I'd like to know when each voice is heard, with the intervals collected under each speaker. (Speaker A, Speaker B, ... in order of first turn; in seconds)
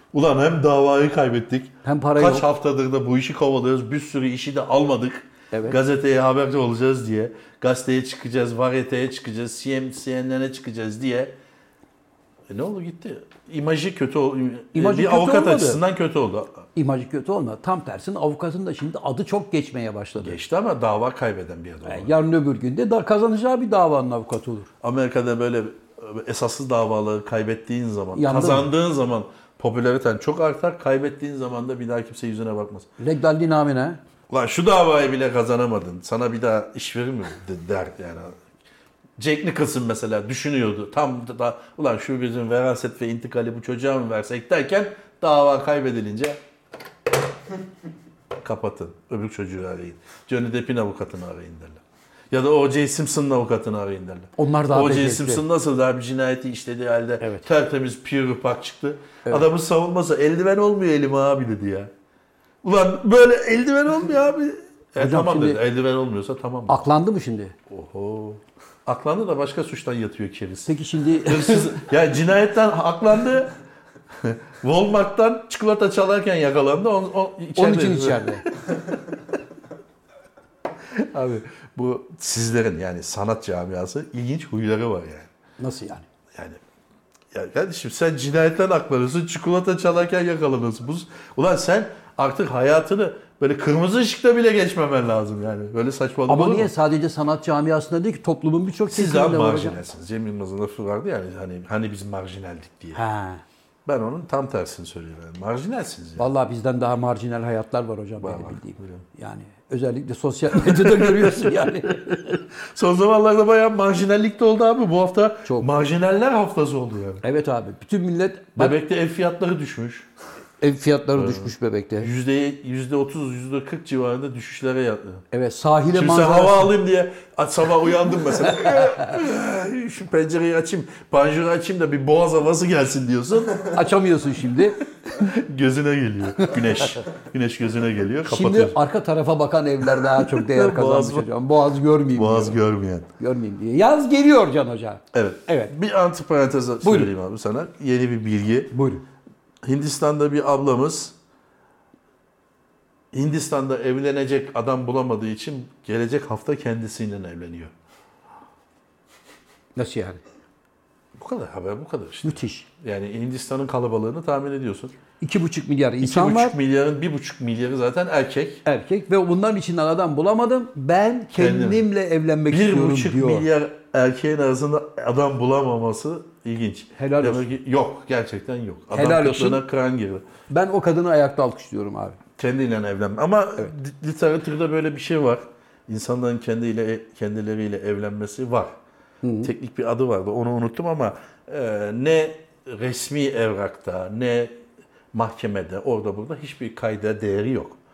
Speaker A: 0.1-11.3, 12.5-16.6, 20.2-22.1, 24.8-32.9, 34.3-38.4, 39.2-46.4, 48.4-61.9, 62.6-66.8, 67.7-73.5, 74.1-78.4, 80.9-85.3, 86.3-86.6, 87.3-96.7, 98.9-103.0, 103.8-106.2, 108.2-109.0, 110.5-117.2, 118.6-120.1, 121.2-125.2, 125.9-133.8, 135.1-138.8, 139.9-141.3, 142.1-143.1, 145.1-148.7, 149.6-151.2, 153.1-157.7, 161.2-164.9, 166.0-168.6, 171.4-171.9, 172.5-180.3, 182.4-188.7, 189.4-194.5, 195.1-197.8
Speaker B: 1.8-2.5, 5.5-5.8, 14.7-15.8, 16.8-20.4, 21.9-24.7, 28.1-28.7, 33.0-34.0, 54.4-55.4, 57.2-57.5, 65.0-65.6, 66.7-67.5, 70.7-71.8, 77.6-78.5, 85.6-86.0, 96.3-99.8, 102.9-103.4, 106.2-112.1, 117.2-118.8, 120.6-122.1, 125.3-126.7, 133.7-134.8, 138.2-142.6, 143.2-145.7, 146.8-147.1, 148.7-149.0, 159.8-160.2, 162.2-162.7, 165.2-166.6, 168.7-173.5, 177.0-177.5, 178.9-179.6, 180.5-182.2, 189.2-189.5